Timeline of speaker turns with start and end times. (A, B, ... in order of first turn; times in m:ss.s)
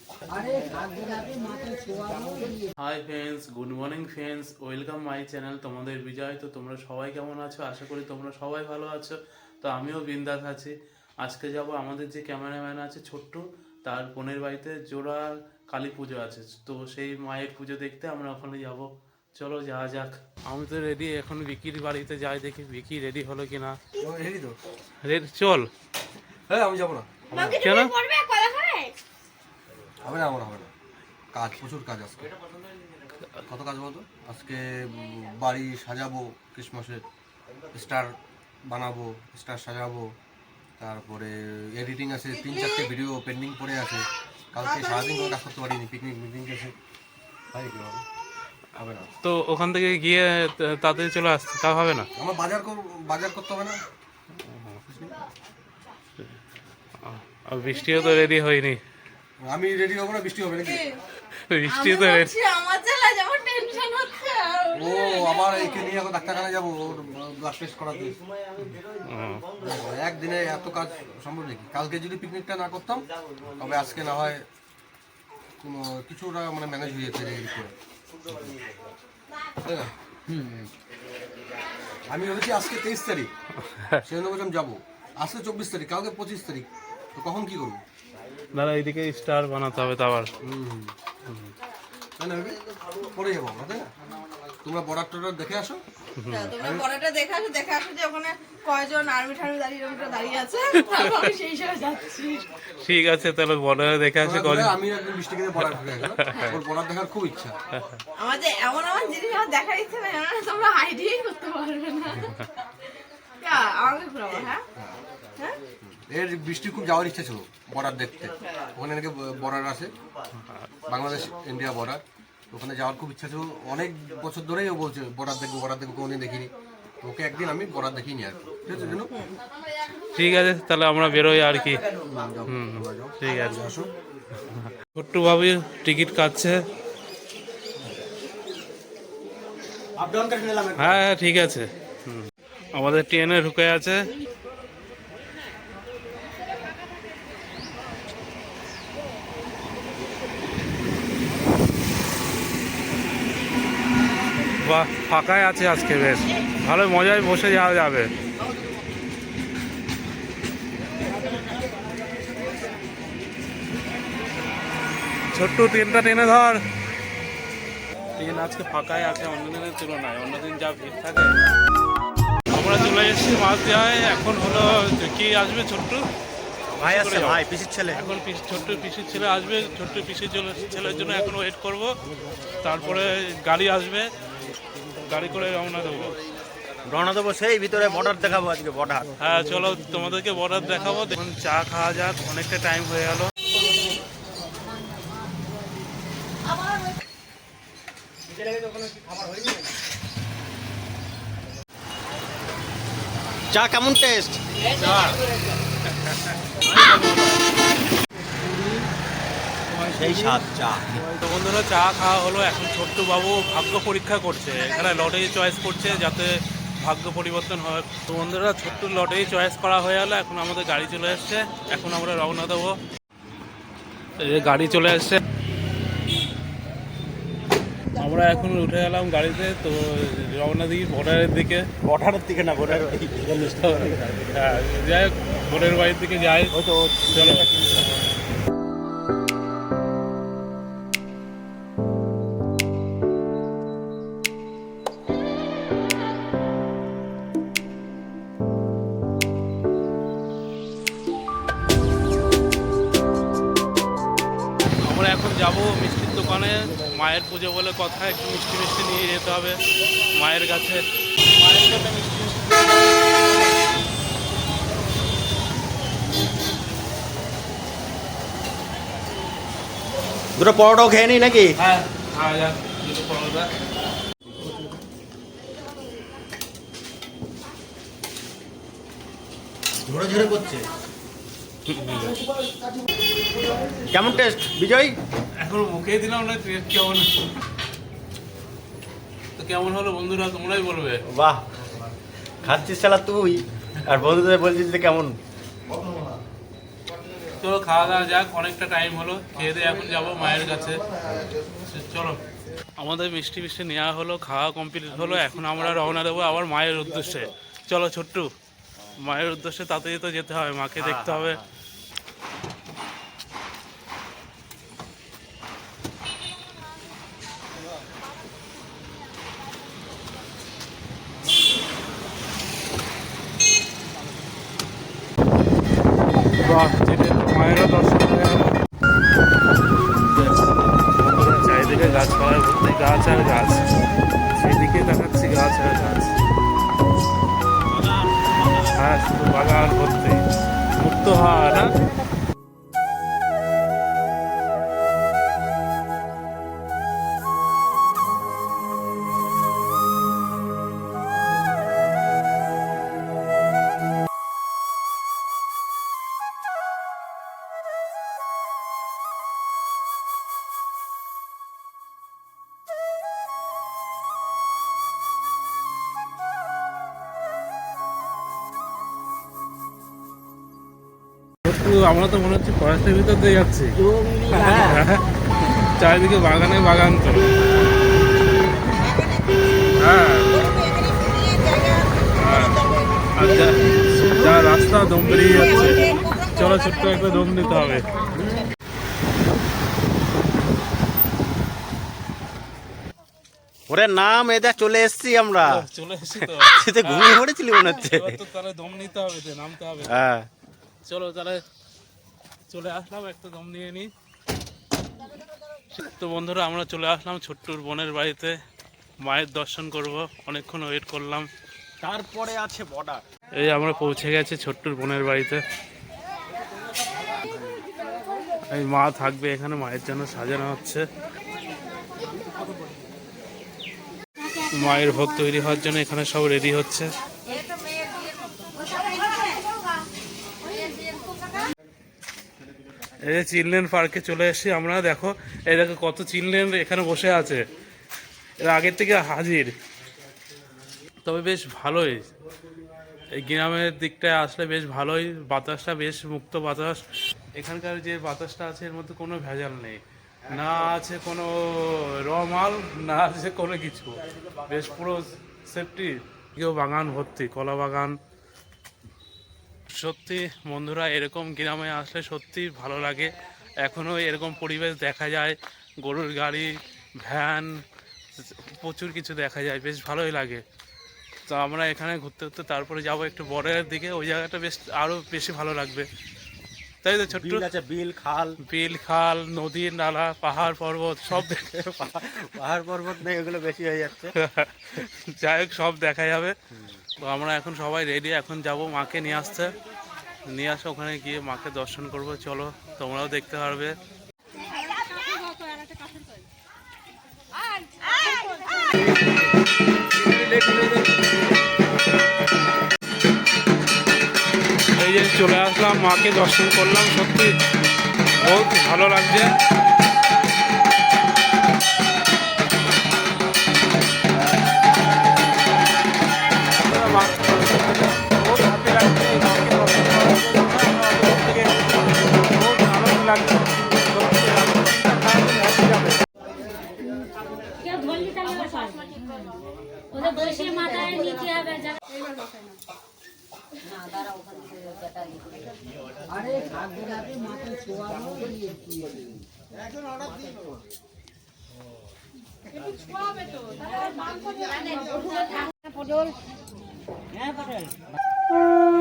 0:02.8-0:23.8 A
0:24.0-0:24.6 B
0:25.0-0:25.7 A
0:26.5-0:27.1 B
0:27.3-0:27.9 A
0:27.3-0:28.9 C
0:30.0-0:30.7 B
0:31.3-0:32.3 B
0:33.5-0:37.0 B
0:37.7-0:38.1 B
0:38.7-0:40.0 B
0:40.8-0:46.7 B
0:47.5-0:48.0 B
0:48.8-0:49.1 B
0:49.2-0:52.1 A
0:52.2-0:53.8 B
0:54.4-0:55.1 A
0:57.0-0:58.8 A
0:59.4-1:00.8 B
1:00.7-1:01.0 C
1:01.5-1:02.3 A
1:01.7-1:05.9 C
1:04.8-1:08.2 B
1:08.6-1:09.4 A
1:09.6-1:14.4 B
1:15.6-1:17.7 B
1:19.6-1:19.9 B
1:22.1-1:23.3 B
1:23.6-1:24.0 A
1:24.0-1:27.8 B
1:28.5-1:30.4 A
1:30.4-1:30.9 B
1:31.3-1:31.5 A
1:32.2-1:33.9 B
1:34.6-1:35.8 B
1:36.2-1:36.5 A
1:36.3-1:42.5 C
1:36.6-1:36.9 B
1:40.7-1:41.3 A
1:42.7-1:44.8 A
1:44.2-1:47.6 B
1:45.6-1:46.6 A
1:47.7-1:48.0 A
1:48.2-1:52.3 C
1:52.2-1:52.5 A
1:53.4-1:54.6 C
1:55.8-1:59.9 B
2:00.4-2:00.7 A
2:00.9-2:06.5 B
2:07.0-2:09.3 B
2:10.1-2:11.8 A
2:12.0-2:13.9 B
2:12.5-2:13.8 A
2:14.4-2:16.6 A
2:20.0-2:21.0 D
2:20.8-2:24.1 A
2:34.6-2:38.1 A
2:45.3-2:46.6 A
2:48.2-2:51.4 A
2:52.5-2:56.0 A
2:56.8-2:58.0 D
2:56.8-3:02.0 A
3:02.6-3:04.1 A
3:05.0-3:06.2 A
3:06.8-3:09.1 D
3:09.2-3:13.3 A
3:18.3-3:19.6 D
3:23.5-3:24.4 D
3:24.6-3:25.3 A
3:25.8-3:27.4 A
3:29.9-3:31.1 D
3:31.1-3:42.8 A
3:44.2-3:45.2 A
3:48.0-3:51.7 A
3:51.8-3:54.0 D
3:53.4-3:56.6 A
3:56.5-3:57.9 D
3:57.1-3:57.5 A
4:14.8-4:19.6 A
4:20.1-4:22.4 A
4:30.4-4:31.6 D
4:31.6-4:33.5 A
4:39.9-4:40.6 D
4:41.7-4:42.2 A
4:43.9-4:45.0 D
4:45.4-4:47.3 A
4:49.4-4:51.0 A
4:51.1-4:51.4 D
4:52.4-4:55.1 D
4:57.4-5:00.9 A
5:01.1-5:01.4 D
5:01.6-5:02.2 A
5:02.8-5:08.3 A
5:09.0-5:11.4 A
5:10.8-5:11.4 D
5:26.3-5:28.6 A
5:30.1-5:33.7 A
5:34.4-5:36.1 A
5:37.7-5:38.7 D
5:38.8-5:40.2 A
5:40.8-5:41.7 A
6:11.4-6:13.8 A
6:13.8-6:14.9 D
6:14.3-6:17.3 A
6:19.8-6:20.5 A
6:21.0-6:21.7 C
6:22.1-6:27.9 A
6:33.7-6:35.7 D
6:35.4-6:40.0 A
6:36.2-6:38.2 D
6:39.8-6:40.3 D
6:40.9-6:41.4 A
6:42.5-6:43.9 A
6:45.8-6:48.4 A
6:49.0-6:51.3 A
6:51.8-6:53.0 D
6:53.4-6:55.4 A
6:58.5-7:00.8 A
7:04.5-7:06.9 A
7:13.0-7:17.4 A
7:18.4-7:19.5 A
7:21.0-7:22.1 A
7:23.1-7:26.8 A
7:27.4-7:38.0 A
7:30.3-7:30.7 D
7:34.2-7:34.6 D
7:39.7-7:47.6 A
7:48.2-7:50.4 A
7:51.3-7:55.9 A
7:56.8-7:57.5 A
7:57.1-7:58.4 D
7:58.4-8:01.4 A
8:01.2-8:04.2 D
8:04.2-8:06.4 A
8:07.0-8:09.5 A
8:10.3-8:13.8 A
8:20.0-8:20.8 A
8:24.8-8:27.4 A
8:28.1-8:29.3 A
8:36.6-8:46.0 A
8:47.6-8:49.0 E
8:50.0-8:51.7 E
8:56.3-8:58.3 E
9:04.7-9:05.1 E
9:05.8-9:06.1 D
9:07.2-9:07.7 D